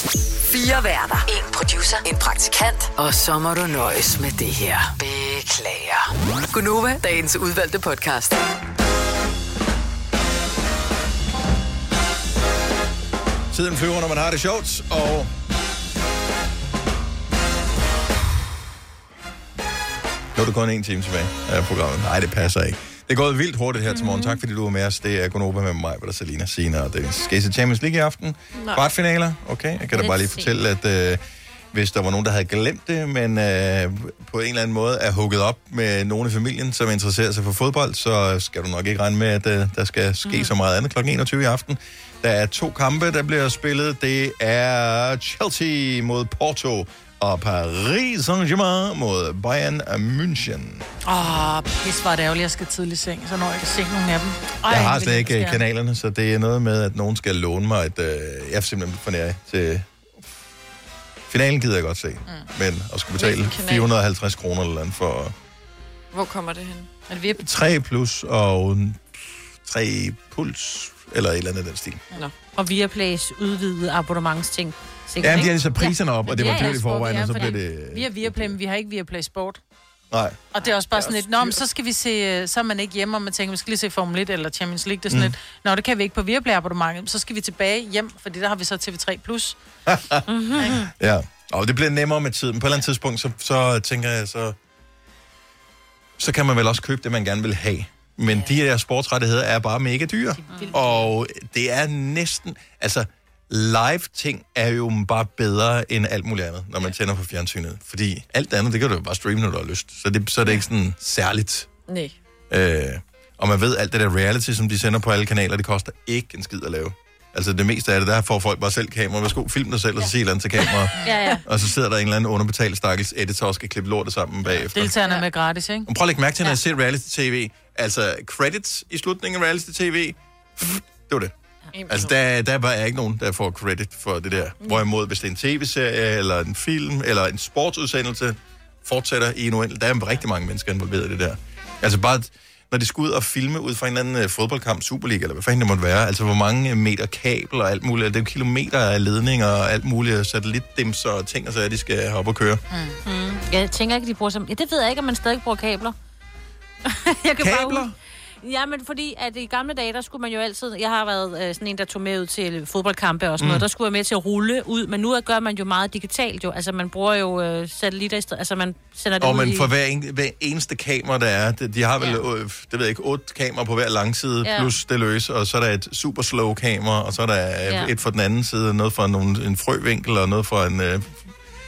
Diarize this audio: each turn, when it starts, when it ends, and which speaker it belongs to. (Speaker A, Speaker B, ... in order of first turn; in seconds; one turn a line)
Speaker A: 0.4-8.4
Speaker B: 13.5-15.3
Speaker B: 20.4-31.2
Speaker C: 23.8-24.4
Speaker D: 28.6-28.8
Speaker C: 29.8-30.5
Speaker B: 31.7-50.8
Speaker C: 40.2-40.5
Speaker E: 51.0-55.6
Speaker B: 54.7-59.9
Speaker B: 61.3-65.3
Speaker D: 63.2-63.9
Speaker D: 66.1-66.9
Speaker E: 67.1-67.4
Speaker B: 67.4-72.0
Speaker C: 72.5-77.6
Speaker B: 75.2-78.5
Speaker E: 76.3-79.6
Speaker B: 80.1-81.5
Speaker E: 80.5-89.6
Speaker B: 85.1-85.3
Speaker B: 89.9-94.5
Speaker C: 90.3-90.8
Speaker E: 90.6-90.9
Speaker B: 96.2-111.7
Speaker E: 100.4-101.1
Speaker C: 100.5-100.8
Speaker D: 111.9-112.2
Speaker B: 112.5-125.0
Speaker E: 121.0-121.4
Speaker C: 121.0-121.4
Speaker E: 124.5-125.9
Speaker B: 125.8-131.3
Speaker D: 131.7-132.1
Speaker B: 131.9-152.6
Speaker E: 152.7-153.0
Speaker C: 153.0-155.9
Speaker C: 156.8-157.9
Speaker B: 157.4-157.9
Speaker C: 158.4-169.7
Speaker B: 163.4-163.7
Speaker B: 169.2-181.2
Speaker C: 174.4-174.7
Speaker C: 177.7-177.9